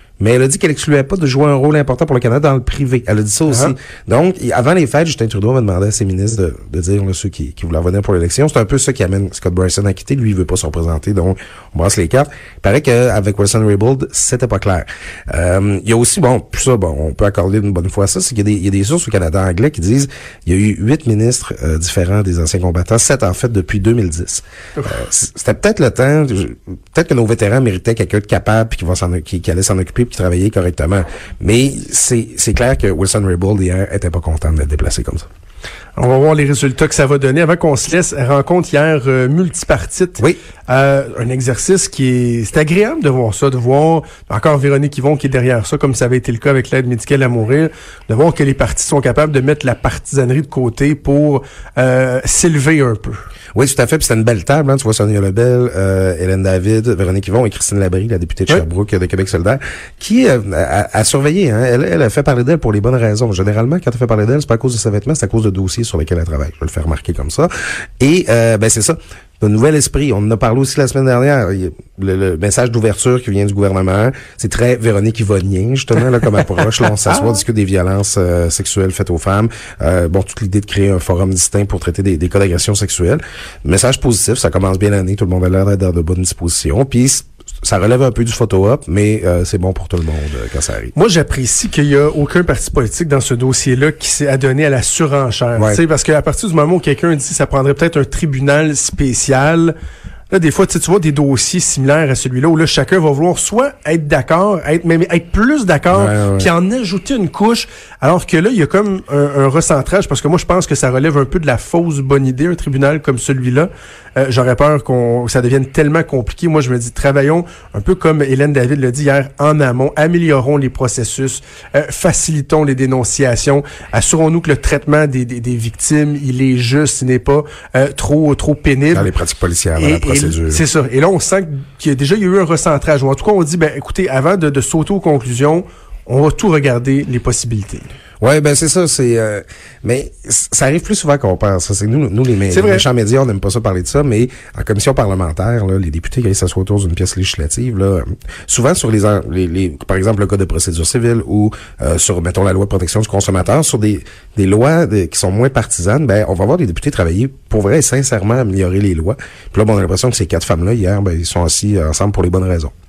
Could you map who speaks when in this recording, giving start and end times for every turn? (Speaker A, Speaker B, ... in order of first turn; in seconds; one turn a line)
Speaker A: 0.2-35.3
Speaker B: 36.0-53.2
Speaker A: 53.5-90.9
Speaker B: 90.9-99.7
Speaker B: 100.3-129.1
Speaker A: 105.9-106.5
Speaker A: 128.9-130.6
Speaker B: 129.8-137.9
Speaker A: 138.2-162.7
Speaker B: 142.5-142.9